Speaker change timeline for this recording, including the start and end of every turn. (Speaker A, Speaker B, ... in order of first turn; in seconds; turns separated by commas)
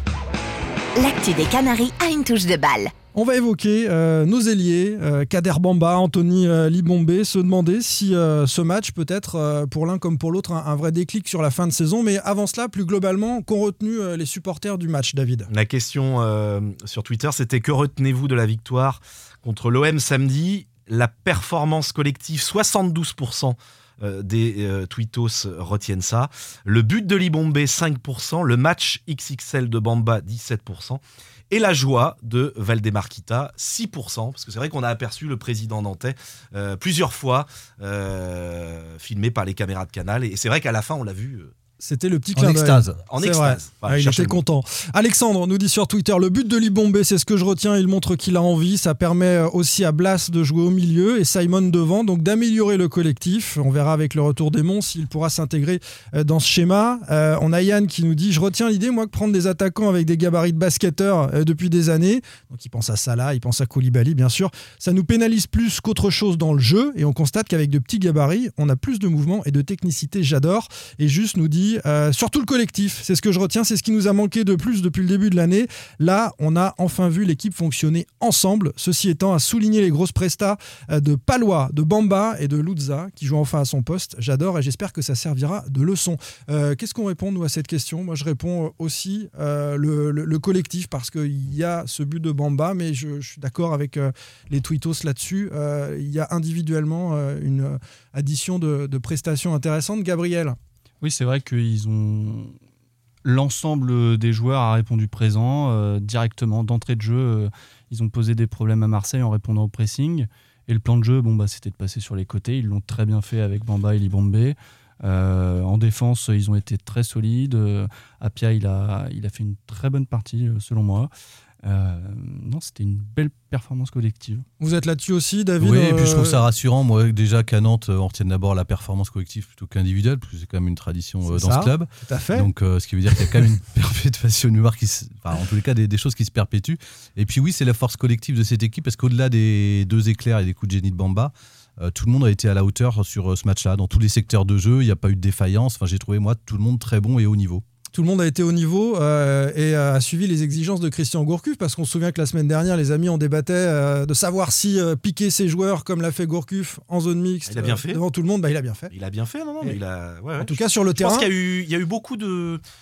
Speaker A: 1.0-2.9, Speaker B: 3.1-15.5, Speaker C: 15.5-41.5, Speaker B: 41.8-100.5, Speaker D: 42.3-43.0, Speaker C: 43.0-44.4, Speaker E: 101.0-102.5, Speaker E: 103.2-121.1, Speaker E: 121.6-124.4, Speaker B: 124.6-126.4, Speaker D: 125.6-147.6, Speaker B: 131.3-132.5, Speaker B: 147.9-158.9, Speaker C: 157.5-158.0, Speaker C: 158.9-162.6, Speaker B: 160.4-161.3